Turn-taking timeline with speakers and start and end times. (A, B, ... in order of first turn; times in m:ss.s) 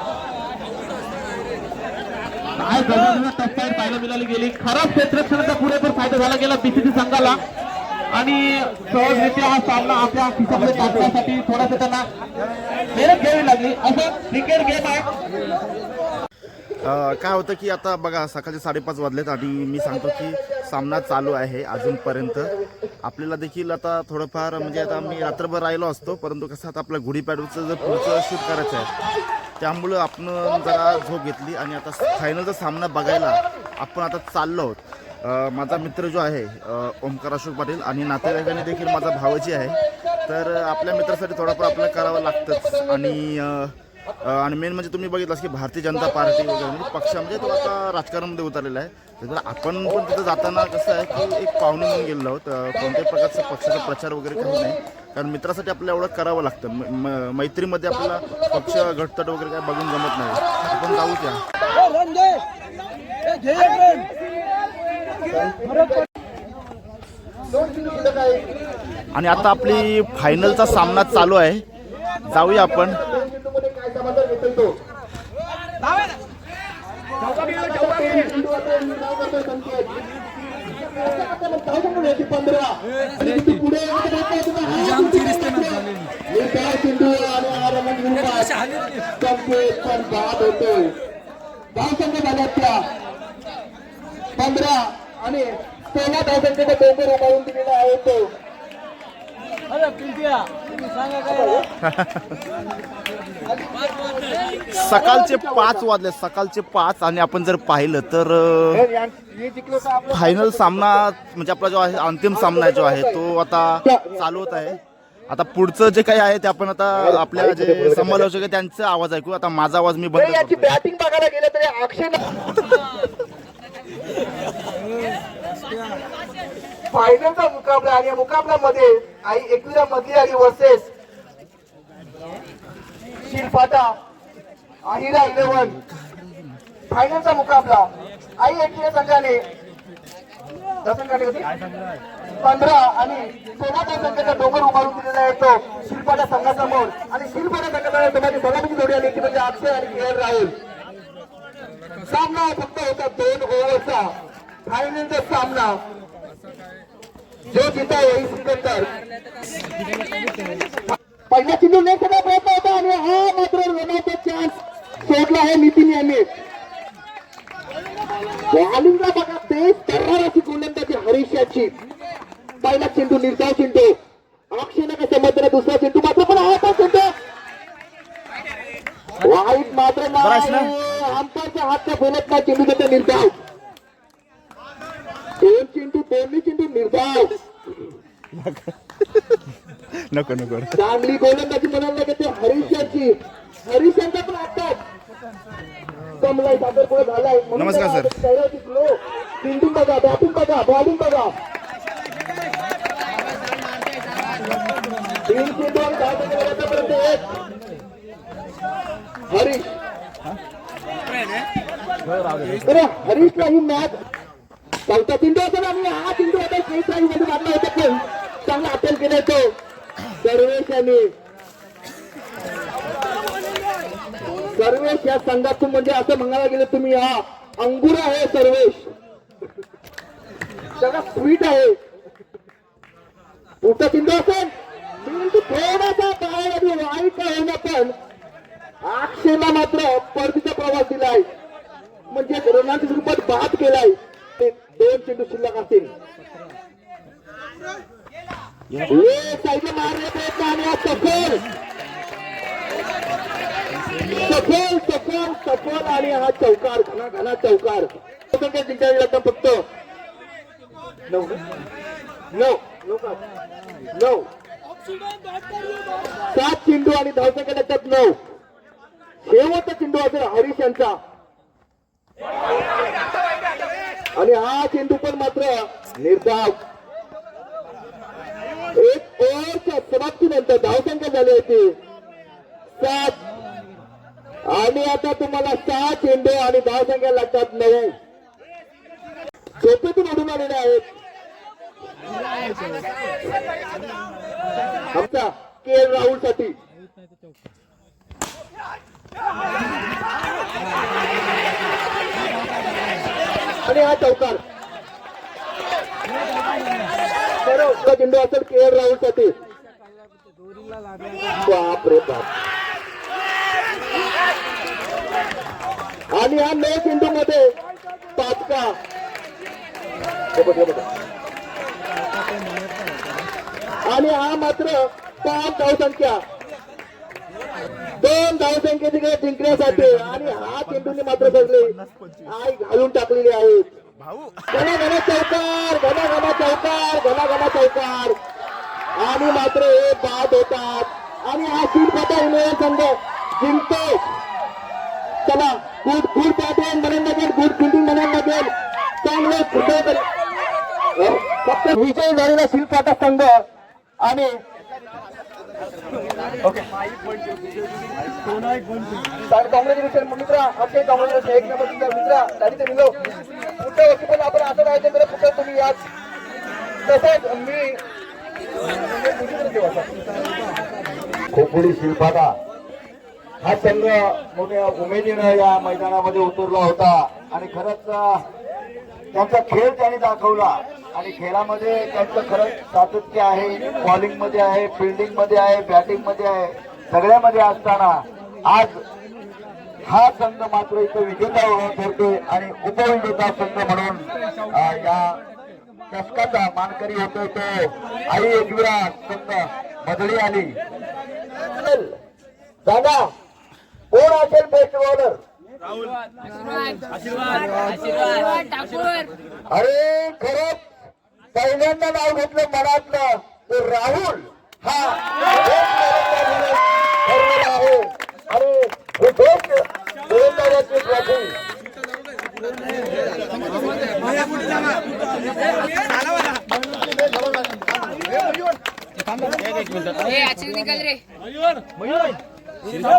0:02.6-0:07.4 A
0:08.1-0:12.1 A
0:13.0-0:15.1 A
0:16.8-0:28.9 B
0:29.6-1:01.4 B
0:41.9-0:43.1 C
0:46.1-0:47.7 C
0:50.2-0:51.8 C
0:52.8-0:53.5 C
0:54.3-0:54.8 C
0:57.9-0:58.9 C
1:00.4-1:01.0 C
1:03.5-1:04.0 C
1:05.3-1:06.1 C
1:07.5-1:08.5 C
1:09.2-1:11.6 B
1:09.4-1:11.2 C
1:12.3-1:13.0 B
1:12.8-1:14.8 C
1:17.2-1:19.9 C
1:20.9-1:28.6 C
1:29.2-1:30.9 C
1:31.7-1:32.9 C
1:34.4-1:38.3 C
1:41.2-1:41.6 C
1:41.8-1:42.4 B
1:43.5-1:45.8 C
1:44.7-1:48.9 B
1:48.7-1:51.0 C
1:50.1-2:00.8 B
1:52.3-1:53.2 C
1:53.8-1:54.2 C
1:57.1-1:58.2 C
2:00.2-2:02.3 C
2:06.9-2:10.9 C
2:13.3-2:14.0 C
2:14.8-2:15.8 C
2:16.9-2:19.4 C
2:20.8-2:21.5 C
2:22.4-2:30.5 C
2:32.0-2:34.1 C
2:34.7-2:35.8 C
2:37.5-2:38.9 C
2:41.3-2:46.3 C
2:48.5-2:51.8 C
2:52.6-2:54.0 C
2:54.5-2:57.1 C
2:59.2-3:03.3 C
3:00.2-3:00.7 B
3:05.4-3:07.4 C
3:08.3-3:08.8 B
3:10.1-3:10.8 B
3:10.8-3:14.8 C
3:16.2-3:21.3 C
3:17.6-3:18.1 B
3:25.3-3:27.3 C
3:29.3-3:29.8 C
3:32.6-3:34.0 C
3:34.9-3:39.5 C
3:40.2-3:41.1 C
3:44.5-3:48.9 C
3:50.8-3:51.8 C
3:53.6-3:58.0 C
3:58.8-4:01.3 C
4:02.1-4:05.9 C
4:08.9-4:11.4 C
4:14.2-4:19.6 C
4:21.1-4:21.4 C
4:22.3-4:23.2 C
4:23.9-4:24.3 C
4:26.3-4:28.2 C
4:29.2-4:31.0 C
4:34.2-4:36.6 C
4:38.8-4:41.8 C
4:42.8-4:43.2 C
4:44.5-4:48.0 C
4:49.6-4:50.9 C
4:54.9-4:56.6 C
5:03.7-5:04.4 C
5:07.4-5:09.4 C
5:11.3-5:12.3 C
5:16.1-5:17.5 C
5:18.2-5:18.8 C
5:20.3-5:20.8 C
5:23.9-5:26.2 C
5:28.0-5:31.7 C
5:29.5-5:32.3 B
5:32.3-5:33.7 C
5:34.0-5:34.6 B
5:34.5-5:38.2 C
5:39.0-5:44.2 C
5:45.3-5:48.5 C
5:49.0-5:50.1 C
5:51.0-5:53.4 C
5:54.0-5:54.4 C
5:59.3-6:03.0 C
6:03.6-6:05.8 C
6:06.8-6:07.8 C
6:08.8-6:09.9 C
6:11.3-6:12.4 D
6:13.4-6:18.2 D
6:19.1-6:28.8 D
6:29.9-6:35.2 D
6:35.9-6:40.6 D
6:41.6-6:41.9 C
6:42.6-6:43.1 D
6:43.9-6:45.2 D
6:46.3-6:49.1 E
6:49.5-6:50.6 D
6:51.3-7:01.4 D
7:09.8-7:11.0 E